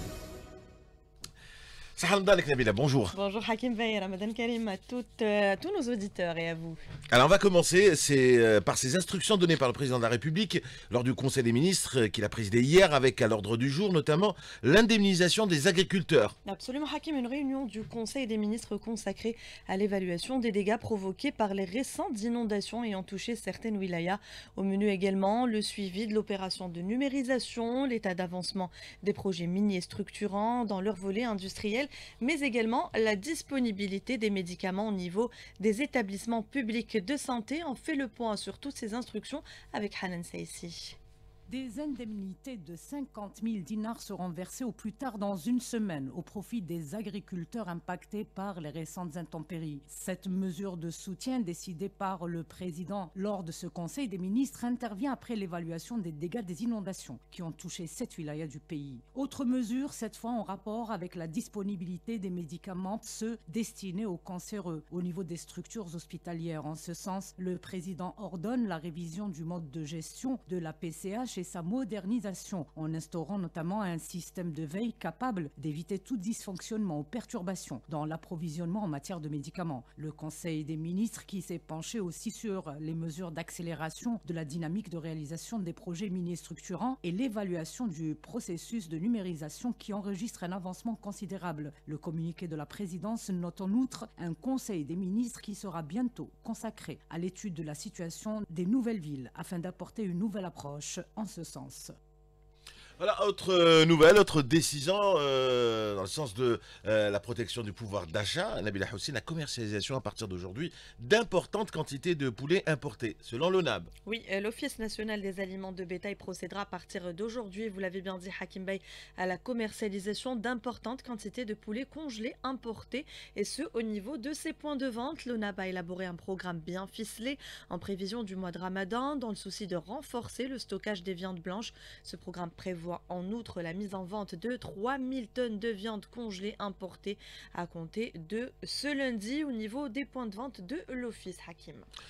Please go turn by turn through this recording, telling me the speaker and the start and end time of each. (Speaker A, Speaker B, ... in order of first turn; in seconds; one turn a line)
Speaker A: 2.0-3.1
Speaker B: 3.1-6.8
Speaker A: 7.1-16.4
Speaker B: 16.5-41.0
Speaker C: 41.5-101.9
Speaker A: 103.0-113.9
Speaker B: 114.1-141.9